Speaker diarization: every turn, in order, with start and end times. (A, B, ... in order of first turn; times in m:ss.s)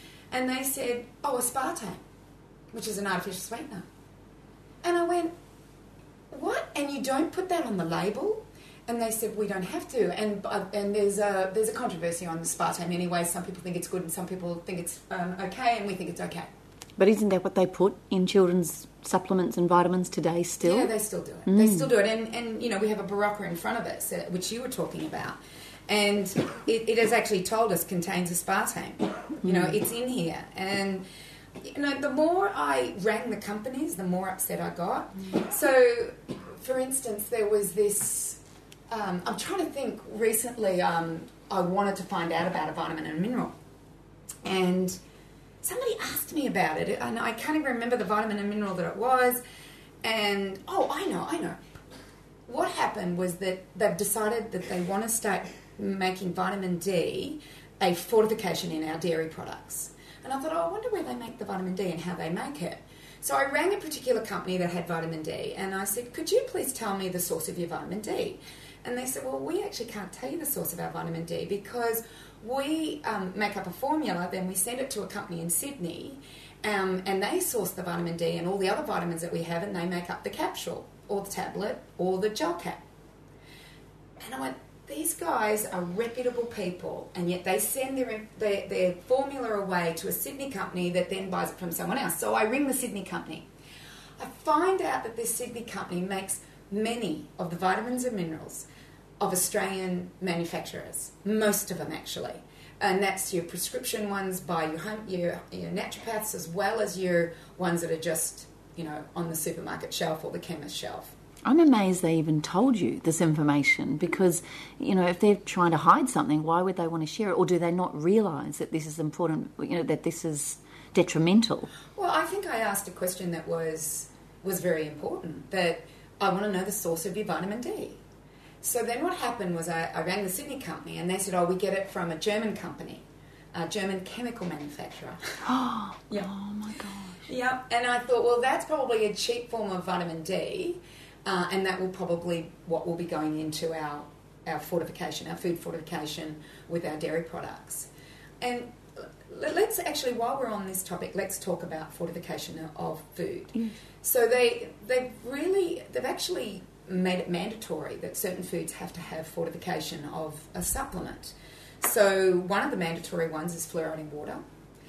0:00.3-0:02.0 A
0:02.7-0:03.8 A
0:04.8-0:05.3 A
0:06.3-0:16.5 A
0:17.0-0:20.9 B
0:20.6-0:31.0 A
0:21.5-0:21.9 B
0:29.4-0:29.8 B
0:31.6-0:38.4 A
0:38.9-0:43.5 A
0:44.4-0:45.0 A
0:45.6-0:49.4 A
0:50.0-0:51.6 A
0:52.5-1:22.8 A
1:24.2-1:33.5 A
1:34.2-1:38.7 A
1:39.2-1:51.1 A
1:51.4-2:01.7 B
2:01.9-2:08.0 A
2:08.6-2:15.4 A
2:15.4-2:17.2 B
2:17.2-2:27.9 A
2:28.4-2:44.4 A